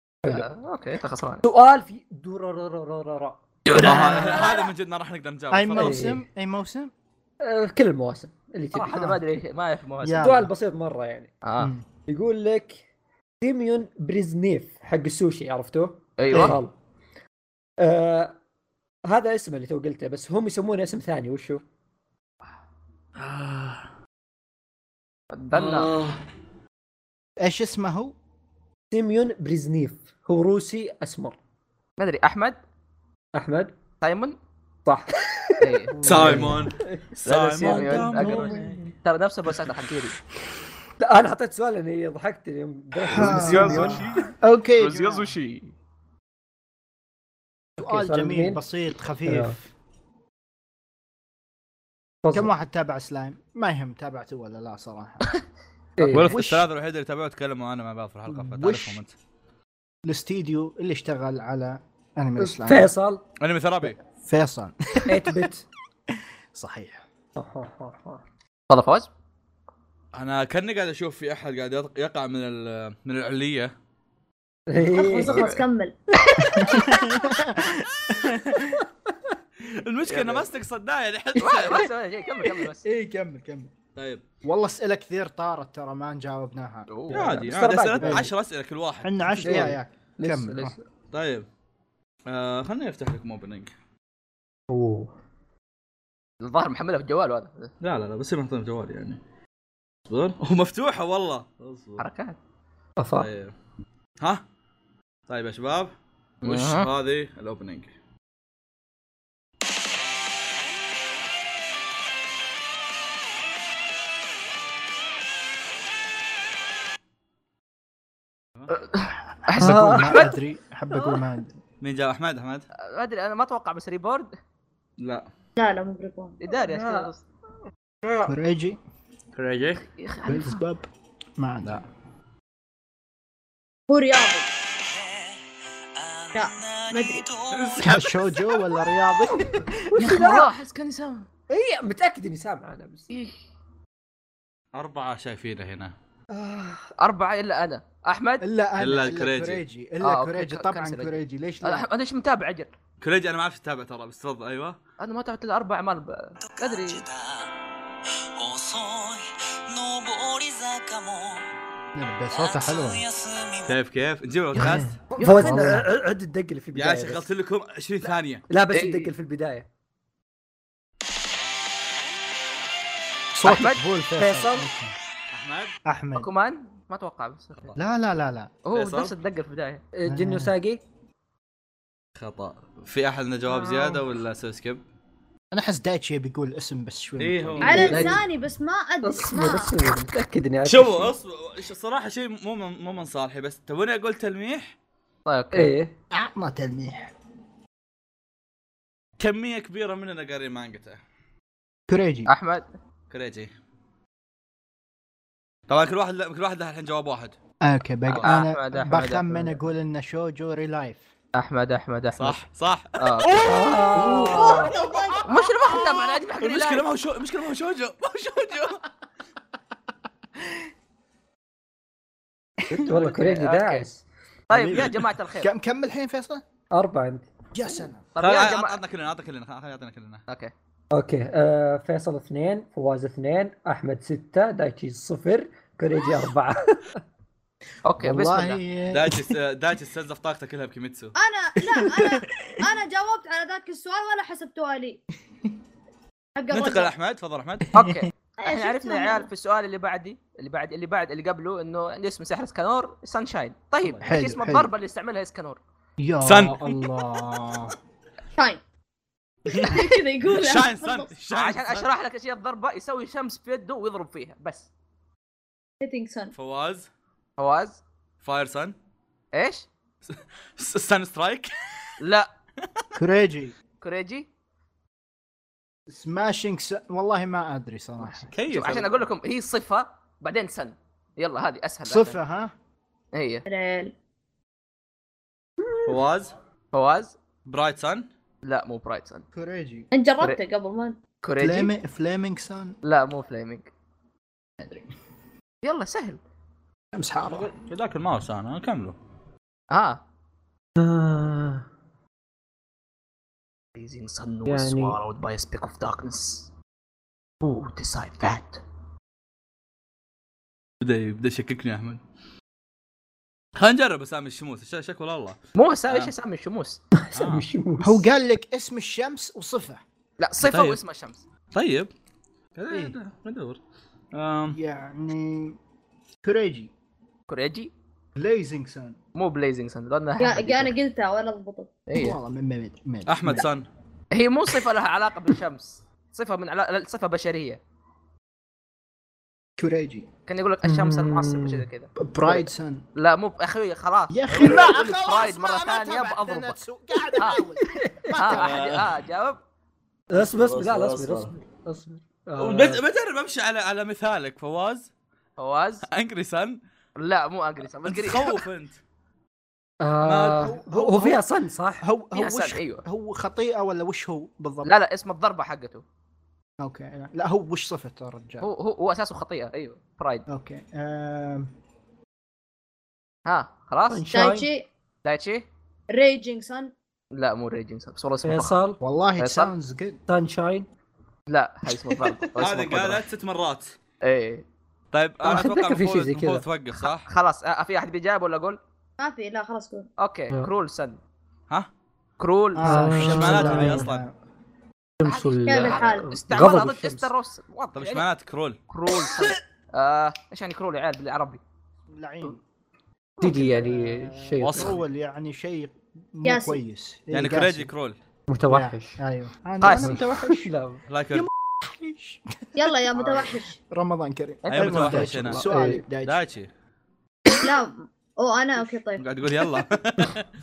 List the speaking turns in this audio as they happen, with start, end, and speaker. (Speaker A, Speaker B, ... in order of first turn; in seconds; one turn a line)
Speaker A: 0.3-1.4
Speaker B: 1.4-3.4
Speaker A: 3.7-4.5
Speaker C: 3.7-6.0
Speaker D: 3.8-4.4
Speaker D: 5.5-6.9
Speaker B: 5.8-6.2
Speaker B: 7.4-9.1
Speaker A: 8.7-10.3
Speaker D: 8.9-9.2
Speaker D: 10.0-10.5
Speaker B: 10.2-11.3
Speaker A: 11.4-11.7
Speaker D: 11.6-11.8
Speaker B: 12.1-12.8
Speaker B: 13.4-16.8
Speaker A: 16.2-16.6
Speaker B: 17.8-18.4
Speaker B: 19.1-21.6
Speaker C: 23.2-23.9
Speaker A: 25.3-25.9
Speaker C: 25.5-26.2
Speaker D: 27.4-28.1
Speaker B: 28.9-31.4
Speaker A: 32.0-32.6
Speaker B: 33.4-33.7
Speaker A: 34.0-34.4
Speaker B: 34.9-37.0
Speaker A: 35.6-36.4
Speaker D: 36.0-36.6
Speaker C: 36.0-36.8
Speaker A: 37.2-40.2
Speaker C: 37.3-39.0
Speaker B: 37.6-38.9
Speaker B: 41.0-44.0
Speaker D: 43.1-45.3
Speaker A: 43.1-45.7
Speaker D: 47.8-49.6
Speaker B: 47.8-48.6
Speaker B: 49.3-49.6
Speaker B: 52.2-52.5
Speaker D: 52.3-55.3
Speaker B: 56.0-56.4
Speaker D: 56.0-56.7
Speaker C: 56.1-59.2
Speaker D: 58.3-59.0
Speaker D: 60.0-62.9
Speaker B: 62.4-63.2
Speaker C: 63.4-64.0
Speaker D: 64.1-65.4
Speaker B: 65.1-65.7
Speaker D: 66.5-67.0
Speaker B: 67.4-68.2
Speaker A: 68.7-69.1
Speaker C: 70.1-73.7
Speaker B: 74.7-75.5
Speaker E: 74.9-76.0
Speaker A: 75.2-75.6
Speaker A: 76.2-76.7
Speaker B: 76.3-76.7
Speaker E: 76.5-77.2
Speaker D: 76.6-78.8
Speaker C: 79.6-81.9
Speaker A: 80.1-80.5
Speaker A: 81.4-82.8
Speaker D: 82.8-83.7
Speaker C: 84.0-84.2
Speaker D: 84.4-86.9
Speaker A: 86.9-87.3
Speaker B: 87.1-88.3
Speaker C: 87.1-89.6
Speaker D: 88.0-88.3
Speaker D: 89.0-90.8
Speaker B: 89.4-90.8
Speaker C: 91.1-91.5
Speaker C: 92.3-93.7
Speaker B: 94.7-95.1
Speaker A: 96.4-97.7
Speaker C: 97.8-99.2
Speaker C: 100.1-102.0
Speaker A: 102.0-102.4
Speaker B: 103.0-103.3
Speaker C: 103.2-103.5
Speaker C: 105.3-107.9
Speaker A: 106.4-106.9
Speaker A: 118.7-120.4
Speaker D: 119.5-121.5
Speaker B: 119.6-120.3
Speaker C: 121.8-122.7
Speaker A: 122.8-124.3
Speaker C: 125.0-125.3
Speaker E: 125.6-126.4
Speaker A: 126.4-127.2
Speaker B: 126.7-127.1
Speaker D: 128.3-128.8
Speaker C: 129.3-129.8
Speaker A: 129.8-130.6
Speaker D: 130.3-131.8
Speaker E: 133.9-134.5
Speaker F: 134.8-135.4
Speaker F: 136.0-138.6
Speaker E: 136.3-137.3
Speaker C: 137.6-138.2
Speaker D: 137.8-139.6
Speaker B: 139.6-140.5
Speaker A: 139.6-141.3
Speaker B: 141.5-143.1
Speaker C: 144.7-145.9
Speaker B: 146.3-146.9
Speaker A: 147.0-148.4
Speaker D: 148.4-151.9
Speaker C: 148.8-149.6
Speaker A: 150.0-152.7
Speaker C: 153.0-154.8
Speaker A: 155.0-157.1
Speaker F: 156.5-157.5
Speaker F: 158.4-161.5
Speaker D: 161.9-163.0
Speaker F: 162.3-163.7
Speaker C: 163.7-165.0
Speaker D: 164.6-165.9
Speaker B: 165.2-167.2
Speaker C: 166.7-168.4
Speaker B: 168.5-169.7
Speaker A: 168.7-169.1
Speaker D: 173.3-174.9
Speaker A: 173.4-173.8
Speaker B: 174.2-174.7
Speaker C: 175.3-175.8
Speaker D: 175.9-176.3
Speaker A: 176.1-177.8
Speaker D: 177.8-178.5
Speaker A: 178.7-179.8
Speaker C: 178.7-179.1
Speaker B: 179.9-180.8
Speaker D: 180.1-180.5
Speaker C: 182.2-184.8
Speaker D: 185.5-188.2
Speaker C: 187.2-188.1
Speaker E: 187.6-189.7
Speaker B: 189.0-191.2
Speaker C: 190.7-194.7
Speaker A: 195.3-195.7
Speaker B: 195.5-195.9
Speaker D: 196.1-197.1
Speaker C: 199.2-201.0
Speaker D: 201.9-202.3
Speaker A: 202.3-202.7
Speaker C: 203.1-203.5
Speaker C: 205.7-207.4
Speaker D: 207.6-211.1
Speaker A: 208.2-209.6
Speaker A: 211.3-212.4
Speaker C: 212.2-213.7
Speaker A: 213.0-213.3
Speaker B: 213.4-214.7
Speaker D: 214.1-214.6
Speaker E: 214.3-215.7
Speaker A: 215.2-216.9
Speaker C: 215.8-218.8
Speaker B: 222.7-224.0
Speaker A: 222.7-223.9
Speaker A: 224.5-225.5
Speaker D: 224.5-226.4
Speaker B: 226.7-227.3
Speaker D: 227.5-228.1
Speaker A: 228.2-228.8
Speaker C: 228.2-230.2
Speaker B: 230.9-236.9
Speaker A: 237.8-238.6
Speaker D: 238.0-239.3
Speaker C: 238.9-241.2
Speaker E: 241.2-245.0
Speaker D: 241.7-242.6
Speaker E: 246.4-246.9
Speaker C: 246.5-247.7
Speaker A: 247.7-255.6
Speaker D: 247.8-248.1
Speaker E: 248.4-249.3
Speaker D: 254.0-254.7
Speaker D: 256.0-257.8
Speaker C: 256.2-257.0
Speaker E: 259.6-261.1
Speaker C: 260.3-261.9
Speaker A: 261.3-264.7
Speaker E: 265.8-266.3
Speaker C: 266.3-266.9
Speaker A: 267.4-267.8
Speaker C: 268.2-268.8
Speaker A: 269.3-269.7
Speaker C: 270.1-271.9
Speaker A: 272.0-272.3
Speaker C: 272.6-272.9
Speaker D: 273.0-273.6
Speaker A: 273.8-274.3
Speaker D: 275.9-278.3
Speaker C: 278.3-278.9
Speaker A: 278.5-282.2
Speaker D: 281.9-282.5
Speaker A: 283.1-283.5
Speaker E: 283.5-283.9
Speaker B: 285.7-286.0
Speaker C: 285.9-286.3
Speaker A: 286.7-287.2
Speaker C: 287.5-288.1
Speaker A: 288.4-289.3
Speaker D: 289.3-289.9
Speaker E: 289.9-291.0
Speaker A: 291.2-291.7
Speaker D: 291.4-292.7
Speaker A: 292.8-293.7
Speaker D: 294.6-294.9
Speaker A: 295.6-296.2
Speaker D: 296.9-297.5
Speaker C: 297.3-299.0
Speaker A: 299.7-300.0
Speaker B: 300.8-301.6
Speaker A: 303.8-306.5
Speaker B: 304.5-305.0
Speaker A: 307.4-308.6
Speaker C: 310.8-312.0
Speaker C: 313.6-315.4
Speaker A: 315.6-316.8
Speaker C: 315.9-316.1
Speaker B: 317.0-318.0
Speaker C: 317.1-317.5
Speaker D: 317.8-319.8
Speaker A: 320.2-321.2
Speaker C: 320.4-320.8
Speaker C: 321.5-321.9
Speaker C: 322.6-323.6
Speaker D: 322.7-323.0
Speaker C: 324.1-324.6
Speaker D: 324.5-325.6
Speaker D: 326.2-326.7
Speaker A: 327.3-327.7
Speaker D: 328.2-329.0
Speaker A: 329.1-330.8
Speaker E: 330.2-331.7
Speaker A: 331.9-332.2
Speaker D: 331.9-333.5
Speaker C: 333.1-333.7
Speaker A: 334.1-337.6
Speaker D: 339.6-340.1
Speaker A: 340.3-342.4
Speaker B: 340.6-341.6
Speaker D: 342.0-342.8
Speaker A: 343.0-346.6
Speaker D: 344.1-348.6
Speaker A: 347.2-347.5
Speaker B: 347.8-348.2
Speaker A: 348.1-349.4
Speaker C: 348.3-348.9
Speaker B: 350.1-352.8
Speaker C: 350.1-351.3
Speaker C: 352.4-354.9
Speaker A: 355.4-355.9
Speaker C: 355.9-356.6
Speaker A: 357.0-358.4
Speaker C: 357.9-358.8
Speaker B: 359.8-361.9
Speaker C: 360.0-360.5
Speaker D: 360.4-361.2
Speaker D: 361.8-364.7
Speaker A: 362.1-362.8
Speaker A: 364.6-365.8
Speaker D: 366.6-368.5
Speaker A: 368.4-370.3
Speaker D: 370.3-371.5
Speaker A: 373.3-374.1
Speaker B: 373.9-374.5
Speaker E: 374.1-374.7
Speaker A: 375.0-375.5
Speaker E: 375.9-376.7
Speaker A: 377.1-378.6
Speaker B: 378.2-378.8
Speaker D: 378.8-380.0
Speaker A: 379.2-379.5
Speaker B: 380.1-380.7
Speaker A: 381.3-383.0
Speaker C: 382.4-383.8
Speaker A: 384.0-384.4
Speaker C: 384.9-387.1
Speaker B: 385.2-386.4
Speaker A: 386.7-388.6
Speaker E: 389.0-389.9
Speaker A: 390.0-391.0
Speaker A: 392.2-393.2
Speaker D: 392.6-394.1
Speaker B: 392.6-393.9
Speaker C: 393.0-394.1
Speaker B: 395.0-397.1
Speaker A: 395.0-398.1
Speaker E: 395.5-396.1
Speaker C: 397.8-398.6
Speaker A: 398.7-401.4
Speaker D: 401.9-402.4
Speaker A: 403.2-403.6
Speaker B: 403.2-404.8
Speaker D: 403.5-407.7
Speaker C: 404.4-404.8
Speaker E: 406.2-406.6
Speaker C: 407.1-408.0
Speaker B: 408.3-409.0
Speaker D: 408.5-410.5
Speaker B: 409.6-410.8
Speaker A: 409.6-410.0
Speaker C: 410.9-411.3
Speaker D: 411.1-416.2
Speaker E: 412.6-413.6
Speaker A: 414.4-415.4
Speaker C: 414.5-415.4
Speaker B: 415.4-415.8
Speaker C: 416.0-416.5
Speaker E: 417.4-419.1
Speaker C: 419.0-420.3